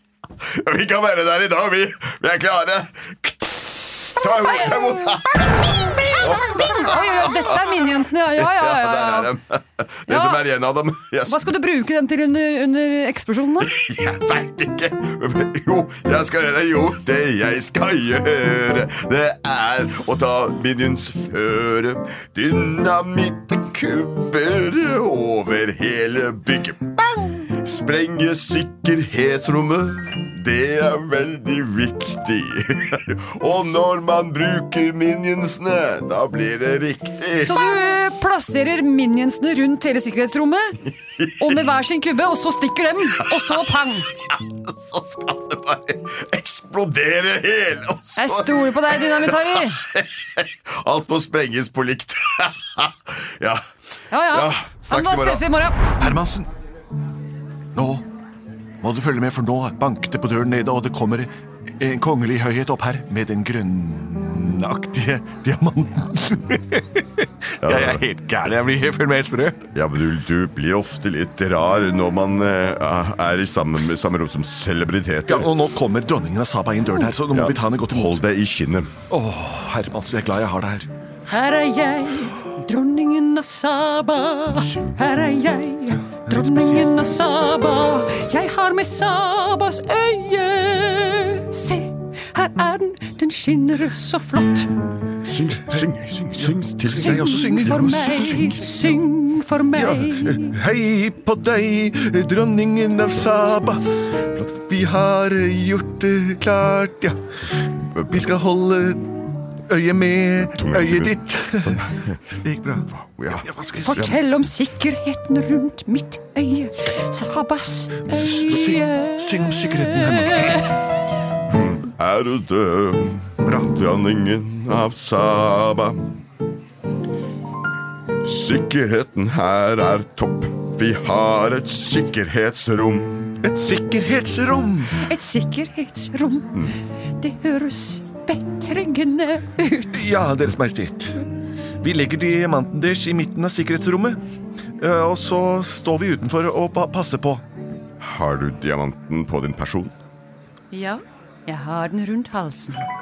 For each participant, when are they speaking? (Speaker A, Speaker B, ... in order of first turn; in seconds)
Speaker A: 0.4-11.5, 13.6-37.7, 41.2-41.6, 44.2-53.6, 54.3-55.4, 67.6-68.0, 69.7-75.5, 77.3-78.9, 84.5-85.0, 95.2-98.8, 110.4-112.2, 112.9-114.2, 121.5-126.1, 128.2-133.3, 148.0-149.9
Speaker B: 4.5-5.0, 5.9-9.3, 10.1-10.4, 11.3-13.7, 37.4-40.8, 41.4-44.1, 48.2-49.8, 54.1-55.8, 81.3-94.7, 96.9-100.5, 113.8-120.7, 135.1-140.1, 150.7-152.9
Speaker C: 56.0-56.5, 57.8-58.0, 58.8-69.7, 75.3-78.2, 79.1-80.9, 86.2-87.0, 95.7-98.5, 99.7-107.2, 108.1-109.1, 109.7-114.1, 118.0-120.6, 133.4-135.1, 139.9-141.2, 141.8-144.2, 144.8-147.4